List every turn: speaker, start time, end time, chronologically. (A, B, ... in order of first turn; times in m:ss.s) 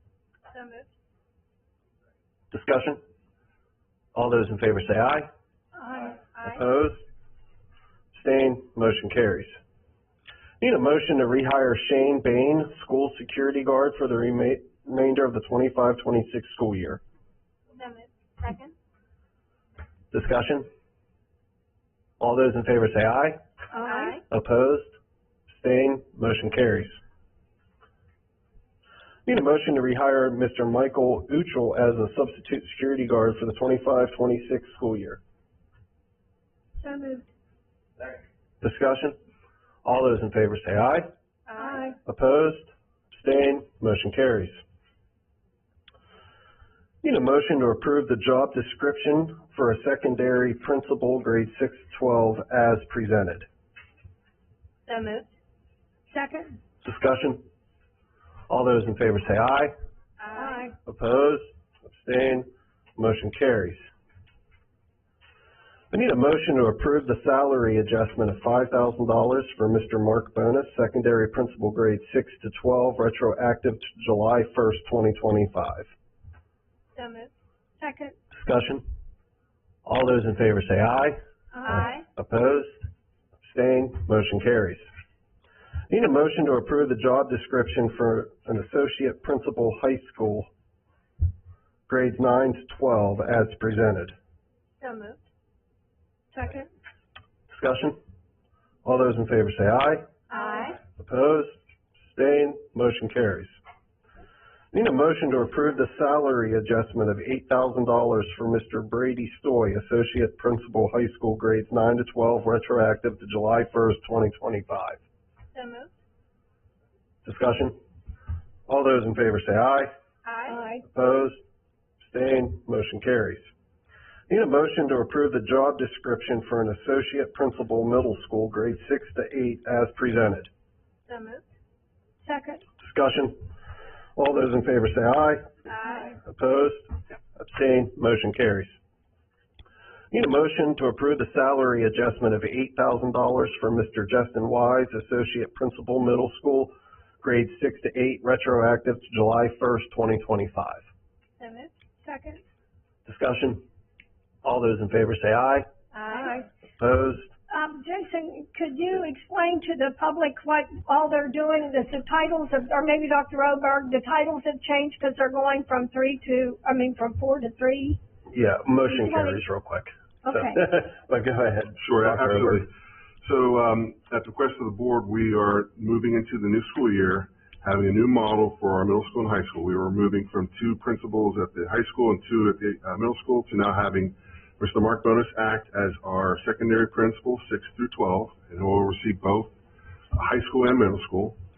0:00.5-0:00.9 A
0:02.5-0:03.0 B
0:04.1-0:05.3 B
0:05.8-0:06.6 A
0:06.4-0:07.0 B
0:08.1-0:09.6 B
0:10.6-0:17.0 B
0:17.7-0:18.7 A
0:20.1-0:20.7 B
0:22.2-0:23.4 B
0:23.7-0:24.2 C
0:23.8-0:24.2 A
0:24.3-0:24.9 B
0:25.5-0:27.0 B
0:29.2-0:35.2 B
0:36.8-0:37.3 C
0:38.6-0:39.2 B
0:39.8-0:41.1 B
0:41.5-0:41.8 A
0:41.6-0:41.9 C
0:42.0-0:44.6 B
0:47.0-0:53.5 B
0:54.8-0:55.3 A
0:56.1-0:56.6 C
0:56.8-0:57.4 B
0:58.5-0:59.7 B
1:00.2-1:00.7 A
1:00.3-1:00.7 C
1:00.8-1:03.8 B
1:05.9-1:15.9 B
1:16.9-1:17.3 A
1:17.8-1:18.1 C
1:18.3-1:18.8 B
1:19.8-1:22.9 B
1:21.5-1:22.0 A
1:23.4-1:24.8 B
1:25.9-1:30.5 B
1:31.9-1:34.1 B
1:34.8-1:35.2 A
1:36.3-1:36.7 C
1:37.5-1:38.0 B
1:38.8-1:40.1 B
1:40.3-1:40.8 A
1:40.9-1:43.6 B
1:44.7-1:55.0 B
1:55.5-1:55.9 A
1:57.2-1:57.8 B
1:58.7-1:59.9 B
2:00.2-2:00.6 A
2:00.5-2:00.8 C
2:00.8-2:01.4 B
2:02.0-2:03.5 B
2:04.3-2:10.5 B
2:11.1-2:11.5 A
2:12.2-2:12.6 C
2:12.8-2:13.4 B
2:14.2-2:18.8 B
2:15.7-2:16.1 A
2:20.1-2:30.8 B
2:31.4-2:31.8 A
2:32.0-2:32.4 C
2:33.0-2:33.6 B
2:34.4-2:35.7 B
2:35.9-2:36.4 A
2:36.1-2:36.5 C
2:36.8-2:37.3 B
2:37.5-2:48.0 C
2:48.3-2:52.7 B
2:48.8-2:49.4 C
2:50.2-2:50.6 C
2:51.8-2:52.7 D
2:53.2-3:09.6 D
3:10.1-3:11.4 D